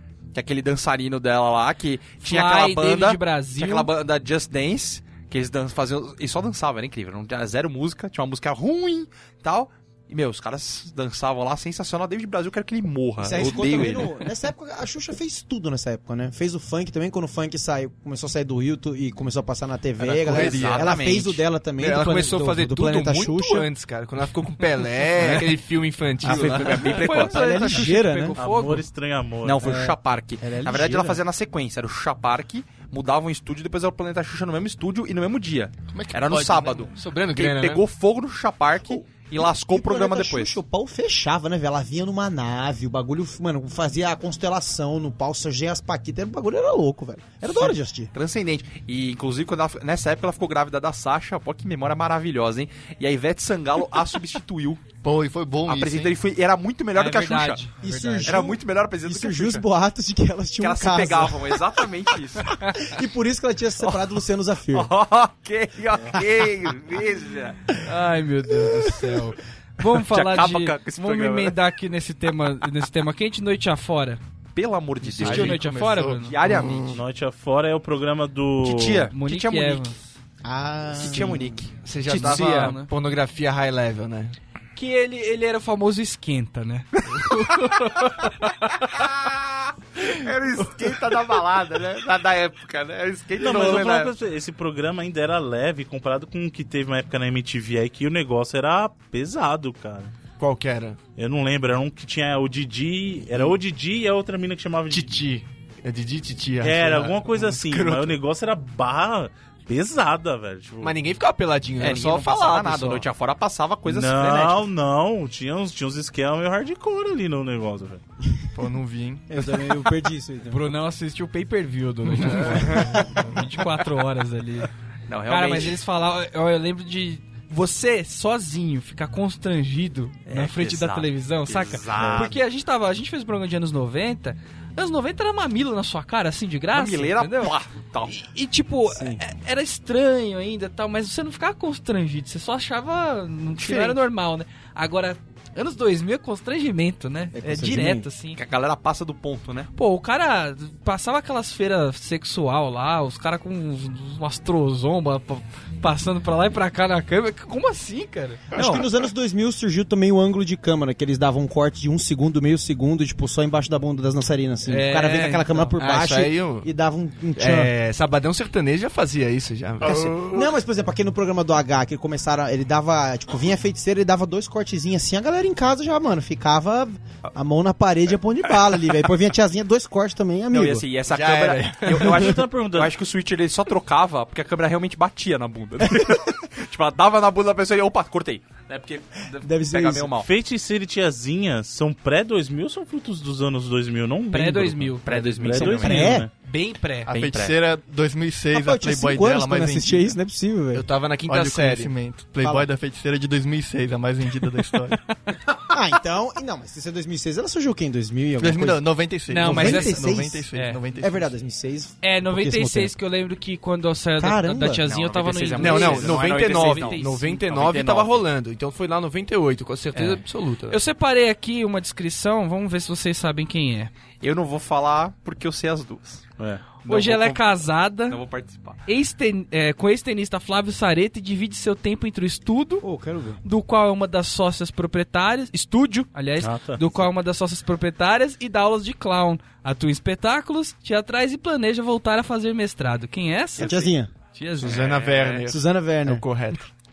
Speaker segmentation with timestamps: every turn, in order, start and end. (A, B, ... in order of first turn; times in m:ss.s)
0:00.3-0:14.1 A
0:02.2-0:03.9 B
0:13.2-0:23.7 C
0:20.0-0:21.4 A
0:20.2-0:20.9 D
0:21.8-0:27.0 D
0:25.2-0:25.4 A
0:26.2-0:27.8 A
0:26.8-0:28.8 B
0:27.2-0:28.4 C
0:28.4-0:29.6 E
0:29.4-0:40.6 A
0:29.6-0:31.2 C
0:35.9-0:36.8 F
0:36.3-0:37.8 D
0:38.8-0:48.1 C
0:47.4-0:54.8 A
0:55.0-0:56.1 F
0:55.6-0:57.6 A
0:56.9-0:58.3 B
0:57.8-1:01.6 C
0:58.2-0:59.6 A
1:00.6-1:02.6 A
1:02.6-1:04.9 C
1:04.7-1:07.7 A
1:07.8-1:14.2 B
1:09.9-1:11.5 A
1:14.5-1:15.6 A
1:15.1-1:17.0 D
1:15.2-1:16.4 B
1:15.2-1:16.7 F
1:16.2-1:16.9 A
1:16.9-1:19.1 E
1:18.6-1:19.9 A
1:19.1-1:20.1 B
1:20.4-1:21.6 C
1:20.9-1:22.8 A
1:21.8-1:24.4 D
1:22.1-1:22.9 B
1:24.7-1:29.1 B
1:27.1-1:28.1 A
1:28.7-1:34.1 A
1:33.3-1:34.0 D
1:33.4-1:40.1 E
1:40.4-1:41.0 D
1:41.2-1:45.2 E
1:44.9-1:48.2 D
1:46.6-1:51.0 E
1:50.8-1:53.0 D
1:51.8-1:54.6 A
1:53.8-1:58.0 E
1:58.6-1:59.2 D
1:58.6-1:59.2 F
1:59.3-2:00.6 C
2:00.5-2:04.7 B
2:05.1-2:05.8 A
2:05.3-2:17.5 B
2:10.3-2:12.4 A
2:11.9-2:12.4 E
2:16.7-2:18.1 A
2:18.1-2:28.4 B
2:18.9-2:19.2 C
2:23.6-2:24.0 A
2:27.3-2:28.1 C
2:28.4-2:29.7 A
2:29.7-2:38.5 B
2:38.5-2:47.7 C
2:44.7-2:45.7 B
2:45.8-2:46.7 D
2:47.4-2:50.4 D
2:49.8-3:00.9 C
3:00.5-3:10.3 A
3:01.1-3:02.3 D
3:02.0-3:02.9 E
3:09.4-3:10.1 C
3:10.2-3:16.3 E
3:14.3-3:17.1 B
3:15.0-3:16.2 A
3:15.6-3:16.3 C
3:17.1-3:17.6 A
3:17.1-3:20.1 F
3:18.5-3:20.8 C
3:20.7-3:21.9 D
3:21.2-3:25.0 F
3:22.4-3:22.7 C
3:25.7-3:28.8 C
3:28.4-3:31.3 F
3:29.3-3:30.8 B
3:29.4-3:30.5 C
3:31.0-3:32.9 C
3:32.0-3:37.4 B
3:34.2-3:34.8 C
3:34.8-3:38.2 A
3:35.6-3:40.8 D
3:39.9-3:40.2 A
3:40.7-3:43.9 B
3:44.2-3:46.2 A
3:46.4-3:46.6 E
3:46.8-3:48.8 A
3:46.8-3:48.2 B
3:48.8-3:52.8 B
3:52.8-3:53.4 C
3:53.4-4:04.8 B
3:56.4-3:56.9 E
4:03.6-4:04.1 C
4:04.6-4:06.7 D
4:04.6-4:05.4 A
4:05.4-4:06.2 C